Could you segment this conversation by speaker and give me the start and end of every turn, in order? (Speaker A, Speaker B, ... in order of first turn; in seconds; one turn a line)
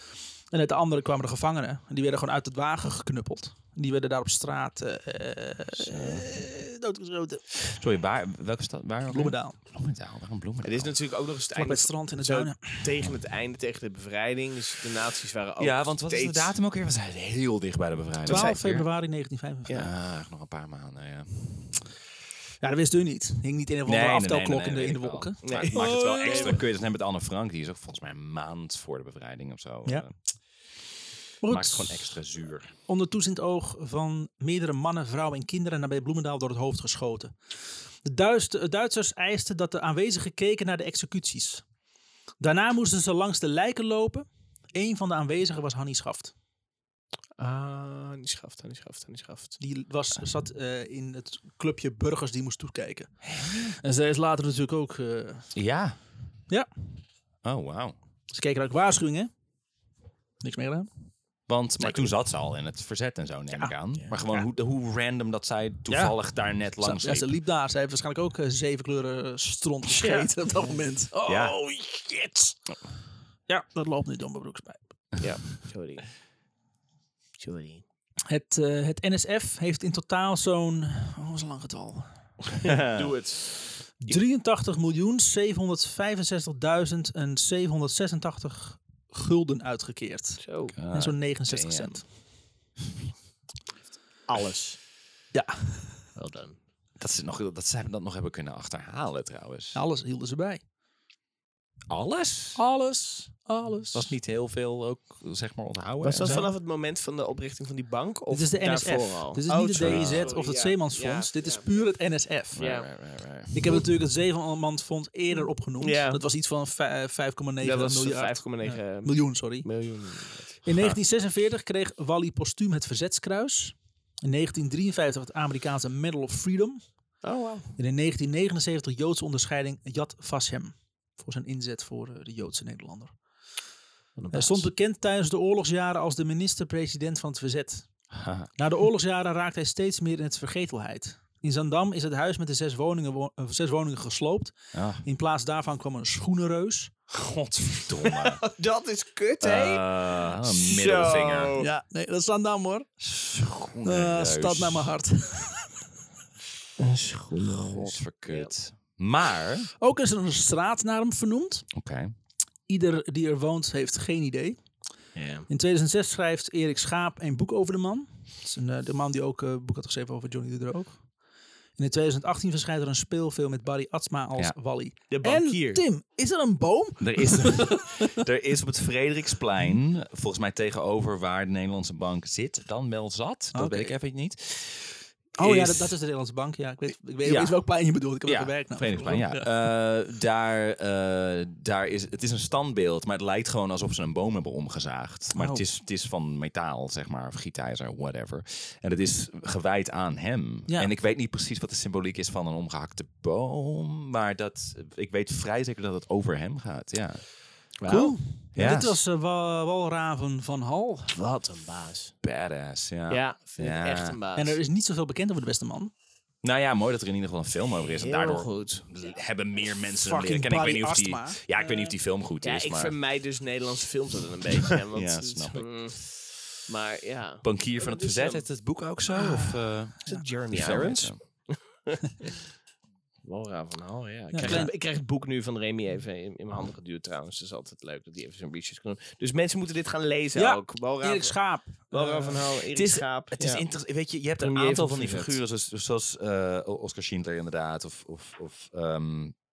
Speaker A: 0.5-7.6
Speaker B: 5.8-6.3
Speaker B: 7.6-10.9
Speaker A: 9.1-9.6
Speaker C: 10.6-16.5
Speaker A: 11.6-13.0
Speaker B: 15.6-18.9
Speaker A: 18.3-19.8
Speaker C: 18.3-18.6
Speaker B: 19.7-21.7
Speaker A: 22.6-26.6
Speaker B: 23.9-30.1
Speaker C: 25.4-26.6
Speaker A: 31.4-32.2
Speaker B: 31.5-32.7
Speaker A: 32.9-37.4
Speaker A: 38.0-41.6
Speaker A: 42.4-46.3
Speaker C: 47.4-49.6
Speaker A: 49.6-55.5
Speaker B: 53.2-53.7
Speaker B: 55.5-56.0
Speaker B: 57.4-58.0
Speaker A: 58.3-59.3
Speaker A: 60.4-60.9
Speaker B: 61.5-67.3
Speaker A: 65.9-66.2
Speaker A: 66.8-72.6
Speaker C: 69.9-70.8
Speaker B: 71.3-71.6
Speaker A: 73.5-74.8
Speaker C: 75.2-76.1
Speaker C: 77.4-77.8
Speaker A: 78.3-82.1
Speaker B: 82.6-83.1
Speaker C: 82.7-83.6
Speaker A: 84.0-92.1
Speaker C: 90.4-90.8
Speaker B: 90.8-92.0
Speaker C: 94.3-94.8
Speaker A: 95.3-96.0
Speaker C: 96.2-96.6
Speaker B: 97.0-99.8
Speaker A: 99.7-100.6
Speaker B: 101.9-102.6
Speaker A: 102.5-104.1
Speaker B: 103.9-106.5
Speaker C: 106.0-111.7
Speaker A: 106.2-106.5
Speaker A: 108.3-112.6
Speaker B: 109.8-110.3
Speaker B: 112.5-113.6
Speaker C: 112.6-112.9
Speaker A: 113.5-119.7
Speaker C: 115.4-116.2
Speaker C: 117.6-120.6
Speaker A: 120.6-126.9
Speaker B: 120.7-121.0
Speaker C: 127.2-127.7
Speaker A: 127.8-133.2
Speaker C: 134.2-134.7
Speaker A: 134.3-137.9
Speaker B: 138.1-138.5
Speaker A: 138.6-146.9
Speaker B: 144.7-145.0
Speaker B: 147.1-148.4
Speaker C: 148.0-151.7
Speaker B: 149.4-151.6
Speaker A: 151.6-152.9
Speaker B: 153.0-154.9
Speaker A: 153.8-155.7
Speaker C: 156.8-158.5
Speaker B: 157.7-159.7
Speaker A: 159.8-161.7
Speaker B: 161.7-162.1
Speaker A: 162.7-164.6
Speaker C: 165.2-165.5
Speaker A: 165.5-171.0
Speaker A: 171.8-178.0
Speaker C: 175.1-175.8
Speaker B: 177.0-186.0
Speaker A: 183.5-183.9
Speaker A: 185.4-189.4
Speaker B: 187.2-187.6
Speaker B: 188.3-207.3
Speaker A: 195.3-195.6
Speaker C: 207.8-208.1
Speaker A: 207.9-211.2
Speaker B: 208.6-209.0
Speaker C: 211.1-212.1
Speaker B: 212.2-214.2
Speaker C: 213.1-214.6
Speaker A: 214.4-215.9
Speaker B: 216.4-223.0
Speaker C: 217.8-218.8
Speaker A: 220.0-221.9
Speaker C: 222.4-228.5
Speaker B: 224.7-226.0
Speaker B: 227.4-231.2
Speaker C: 230.1-232.4
Speaker C: 233.2-243.7
Speaker A: 234.3-234.7
Speaker B: 234.4-234.7
Speaker A: 240.3-242.4
Speaker B: 242.7-249.4
Speaker C: 244.4-245.4